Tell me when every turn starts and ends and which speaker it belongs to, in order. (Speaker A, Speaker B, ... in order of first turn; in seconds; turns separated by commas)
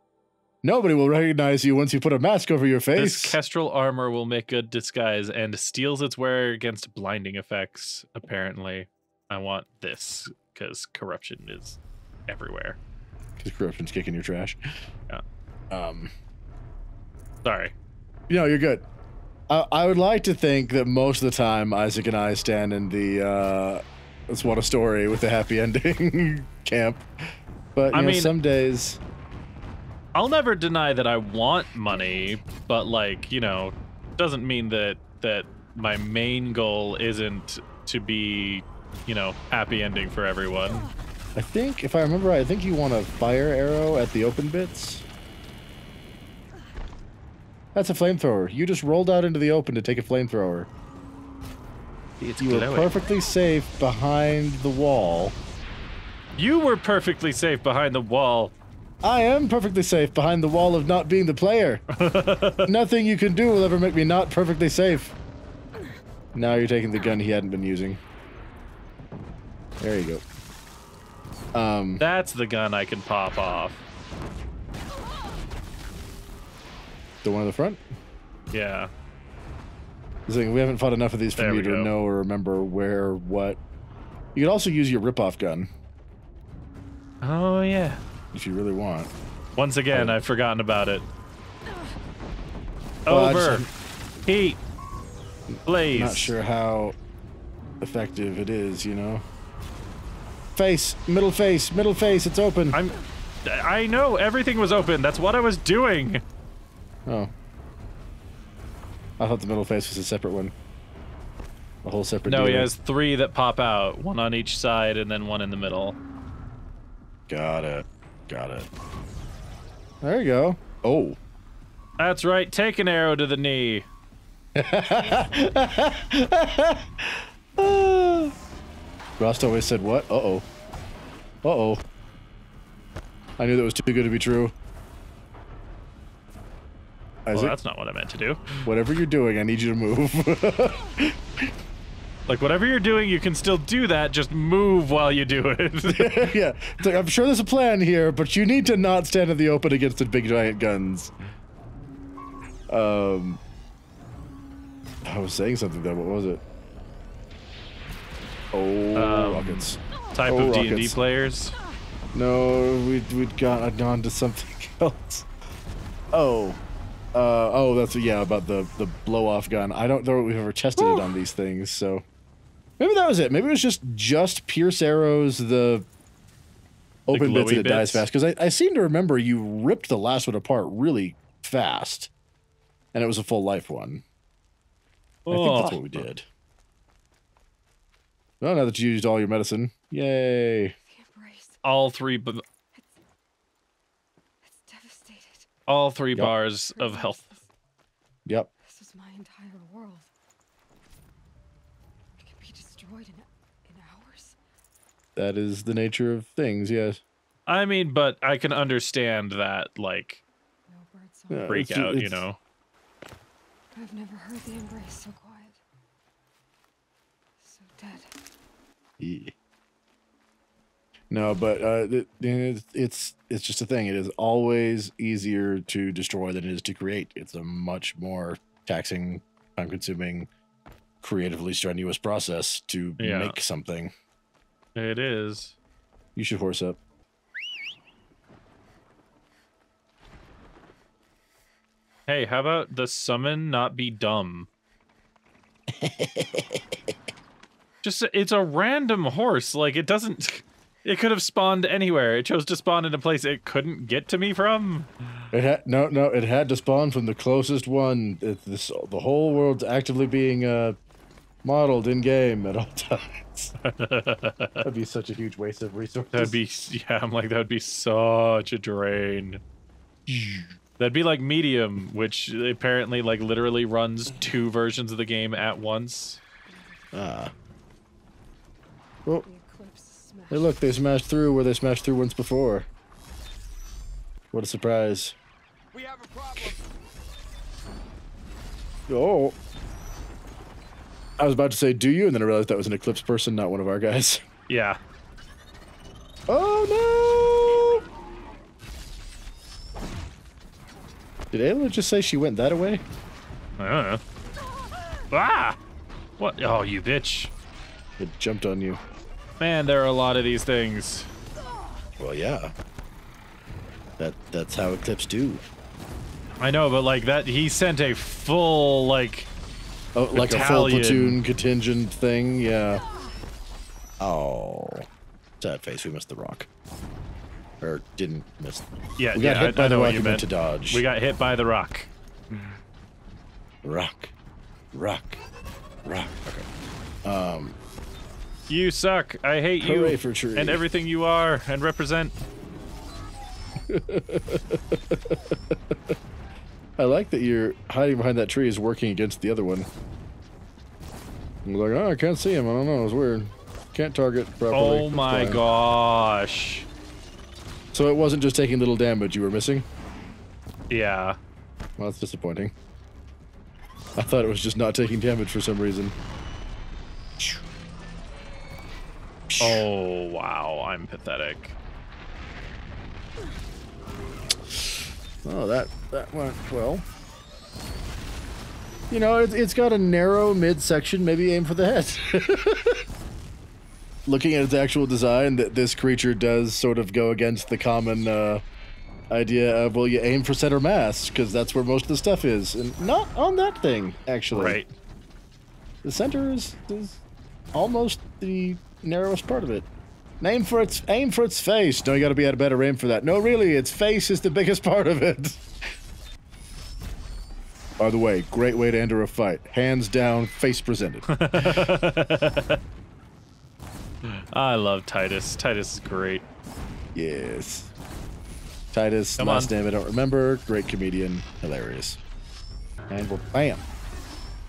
Speaker A: 0.6-3.4, Speaker B: 3.0-12.8, Speaker A: 13.4-14.6, Speaker A: 15.7-16.1, Speaker B: 17.4-17.7, Speaker A: 18.3-18.8, Speaker A: 19.5-29.0, Speaker B: 27.9-28.3, Speaker B: 30.1-40.9, Speaker A: 41.4-45.0, Speaker A: 47.7-50.7, Speaker B: 52.2-52.9, Speaker A: 52.4-55.4, Speaker B: 56.4-58.5, Speaker A: 59.0-61.8, Speaker B: 61.9-62.7, Speaker A: 62.6-65.1, Speaker A: 66.3-68.0, Speaker A: 69.8-70.2, Speaker A: 71.5-72.0, Speaker B: 72.0-73.8, Speaker A: 77.2-77.8, Speaker B: 78.5-78.9, Speaker A: 80.3-83.6, Speaker B: 81.4-81.9, Speaker A: 84.3-85.7, Speaker B: 87.2-88.0, Speaker A: 88.3-89.1, Speaker B: 89.5-91.0, Speaker B: 93.1-93.7, Speaker A: 93.1-93.7, Speaker B: 94.2-94.6, Speaker A: 95.5-97.0, Speaker B: 95.7-96.3, Speaker A: 97.8-99.2, Speaker A: 100.5-102.8, Speaker B: 102.7-106.2, Speaker A: 107.0-107.3, Speaker A: 109.2-110.5, Speaker A: 111.8-112.7, Speaker B: 112.2-116.0, Speaker A: 117.3-118.7, Speaker A: 120.0-121.2, Speaker B: 122.0-123.9, Speaker A: 124.5-128.3, Speaker A: 129.2-130.4, Speaker A: 131.4-131.8, Speaker A: 133.4-134.5, Speaker A: 137.2-137.6, Speaker B: 137.3-138.7, Speaker A: 138.6-141.5, Speaker B: 142.3-146.2, Speaker A: 145.9-151.1, Speaker A: 152.7-153.4, Speaker A: 155.0-156.4, Speaker A: 158.5-160.9, Speaker B: 158.9-161.6, Speaker A: 162.1-165.3, Speaker A: 166.1-166.6, Speaker A: 167.1-172.0, Speaker B: 170.8-171.1, Speaker A: 172.8-175.9, Speaker A: 177.1-182.1, Speaker B: 177.1-178.0, Speaker A: 182.9-184.0, Speaker B: 185.2-186.0, Speaker A: 185.3-186.2, Speaker A: 188.4-190.7, Speaker C: 190.9-191.6, Speaker B: 191.6-192.4, Speaker C: 192.7-193.0, Speaker C: 194.4-195.5, Speaker B: 195.7-197.2, Speaker C: 196.7-197.5, Speaker C: 198.6-200.1, Speaker C: 202.2-204.4, Speaker A: 205.2-207.0, Speaker B: 207.5-210.2, Speaker C: 210.7-211.5, Speaker A: 211.3-212.2, Speaker B: 211.5-212.4, Speaker C: 213.7-215.6, Speaker C: 217.4-218.1, Speaker A: 219.0-219.3, Speaker A: 221.1-230.3, Speaker A: 231.0-233.9, Speaker B: 233.0-233.4, Speaker B: 234.8-235.5, Speaker A: 236.2-236.8, Speaker B: 242.1-244.5, Speaker A: 245.7-246.7, Speaker B: 247.8-254.9, Speaker A: 255.3-260.8, Speaker A: 261.4-263.5, Speaker B: 263.6-264.6, Speaker A: 264.6-266.4, Speaker B: 266.1-269.4, Speaker A: 270.1-270.6, Speaker B: 270.8-276.2, Speaker C: 276.4-277.3, Speaker A: 276.9-277.3, Speaker C: 279.2-280.6, Speaker A: 280.3-282.7, Speaker A: 284.3-285.1, Speaker A: 288.9-289.4, Speaker A: 291.2-294.2, Speaker B: 294.5-294.8, Speaker A: 296.3-297.8, Speaker A: 301.3-302.8, Speaker B: 303.6-304.0, Speaker B: 305.1-305.6, Speaker B: 306.2-307.3, Speaker A: 308.0-308.8, Speaker B: 309.4-311.1, Speaker A: 312.0-312.5, Speaker A: 314.0-315.4, Speaker B: 316.4-319.3, Speaker A: 319.9-322.8, Speaker B: 320.1-321.2, Speaker A: 324.0-324.9, Speaker A: 325.4-326.5, Speaker A: 327.6-330.8, Speaker B: 329.0-331.9, Speaker A: 333.6-334.1, Speaker A: 334.7-335.2, Speaker A: 335.8-336.5, Speaker A: 337.0-337.6, Speaker B: 338.5-342.2, Speaker A: 339.6-340.6, Speaker A: 343.7-345.9, Speaker A: 346.8-349.7, Speaker A: 351.4-355.4, Speaker B: 354.5-356.6, Speaker A: 357.7-359.6, Speaker B: 360.7-361.2, Speaker A: 361.8-362.5, Speaker A: 363.9-365.9, Speaker A: 369.3-369.7, Speaker B: 369.4-371.6, Speaker A: 374.5-376.8, Speaker A: 378.9-382.8, Speaker A: 384.1-388.4, Speaker A: 389.1-394.6, Speaker B: 394.3-394.7, Speaker A: 395.8-397.0, Speaker A: 397.5-399.7, Speaker A: 400.2-405.4, Speaker A: 407.8-411.7, Speaker B: 411.1-412.6, Speaker B: 414.0-416.2, Speaker A: 416.9-417.7, Speaker A: 418.7-422.0, Speaker B: 419.2-419.5, Speaker A: 422.9-423.6